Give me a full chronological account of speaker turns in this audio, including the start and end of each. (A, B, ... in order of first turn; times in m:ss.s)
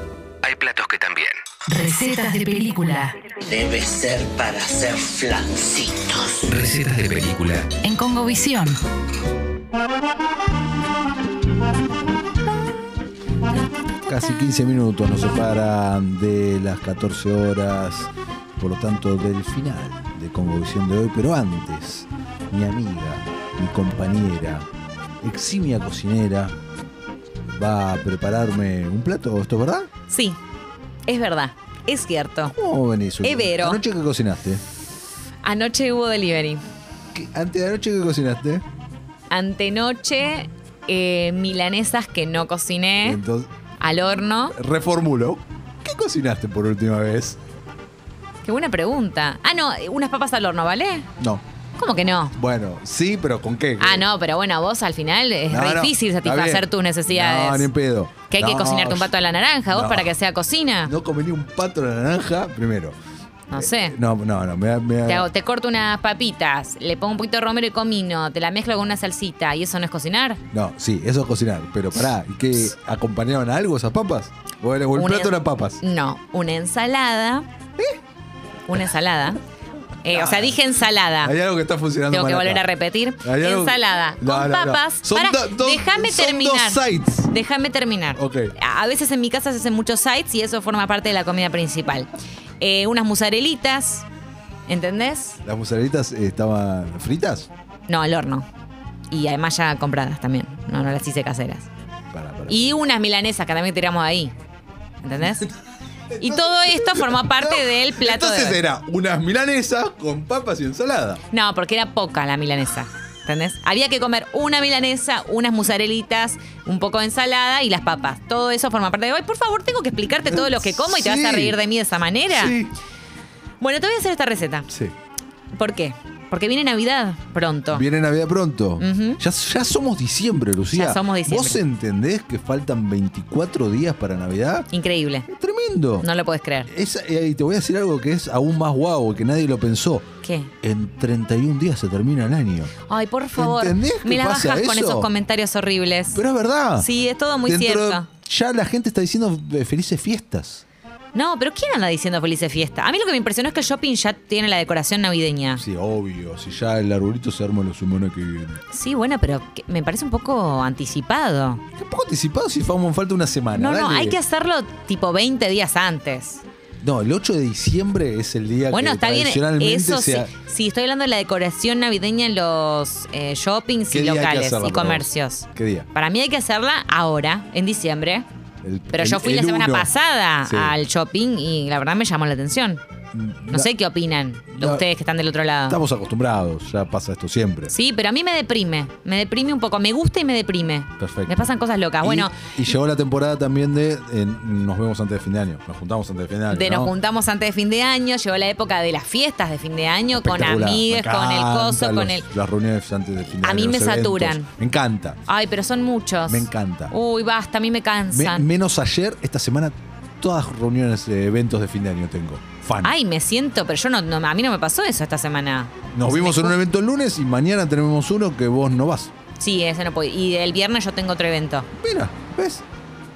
0:00.5-0:01.4 A
0:01.7-0:03.2 B
0:03.4-0:06.6 C
0:06.6-0:07.7 A
0:07.7-0:08.8 B
0:14.1-0:24.7 D
0:25.2-0:26.6 D
0:27.5-0:29.9 D
0:30.1-0:30.4 E
0:31.1-0:32.5 E
0:32.5-0:34.6 D
0:33.2-0:33.8 E
0:35.4-0:36.6 E
0:37.1-0:38.6 D
0:39.3-0:43.2 E
0:43.0-0:43.5 D
0:43.8-0:44.6 E
0:44.5-0:47.4 D
0:48.4-0:51.1 E
0:51.8-0:52.4 E
0:52.3-0:54.1 D
0:53.8-0:57.7 E
0:55.5-0:59.1 D
0:58.3-1:00.9 E
0:59.7-1:00.1 D
1:00.8-1:03.0 D
1:03.5-1:04.0 E
1:03.5-1:05.3 D
1:05.1-1:10.4 E
1:10.5-1:15.8 D
1:14.9-1:17.5 E
1:18.7-1:19.4 E
1:20.0-1:21.3 E
1:20.1-1:20.6 D
1:21.2-1:22.7 D
1:22.1-1:32.1 E
1:23.2-1:27.3 D
1:28.2-1:28.5 D
1:32.6-1:34.0 E
1:34.7-1:35.4 E
1:35.4-1:37.5 D
1:37.9-1:38.5 E
1:39.1-1:41.7 E
1:42.1-1:42.7 D
1:42.5-1:44.3 E
1:45.0-1:45.5 E
1:46.1-1:51.2 D
1:46.2-1:48.6 E
1:51.3-2:02.6 E
2:00.3-2:01.6 D
2:02.3-2:02.8 D
2:03.6-2:04.7 E
2:05.6-2:07.8 E
2:07.7-2:14.7 D
2:08.8-2:09.2 E
2:10.7-2:11.6 E
2:14.7-2:15.3 E
2:15.3-2:16.1 D
2:16.0-2:16.7 E
2:16.7-2:20.1 D
2:20.2-2:20.5 E
2:20.6-2:22.7 D
2:22.9-2:26.2 E
2:23.4-2:25.1 D
2:26.1-2:26.9 D
2:26.8-2:28.1 E
2:27.5-2:30.6 D
2:31.1-2:35.6 E
2:35.6-2:38.6 D
2:38.7-2:41.6 E
2:41.8-2:44.2 D
2:43.6-2:46.4 E
2:46.8-2:50.3 D
2:48.7-2:58.3 E
2:53.9-2:55.9 D
2:58.6-2:59.9 D
2:58.9-3:02.8 E
3:00.4-3:00.8 D
3:03.1-3:03.7 D
3:03.5-3:05.8 E
3:04.6-3:04.8 D
3:05.7-3:07.7 D
3:07.7-3:12.4 E
3:11.0-3:16.9 D
3:16.5-3:22.3 E
3:20.2-3:25.2 D
3:23.4-3:24.5 E
3:25.3-3:28.5 E
3:26.3-3:27.0 D
3:28.1-3:32.9 D
3:32.8-3:36.6 E
3:35.9-3:39.1 D
3:39.4-3:41.7 E
3:41.8-3:42.6 D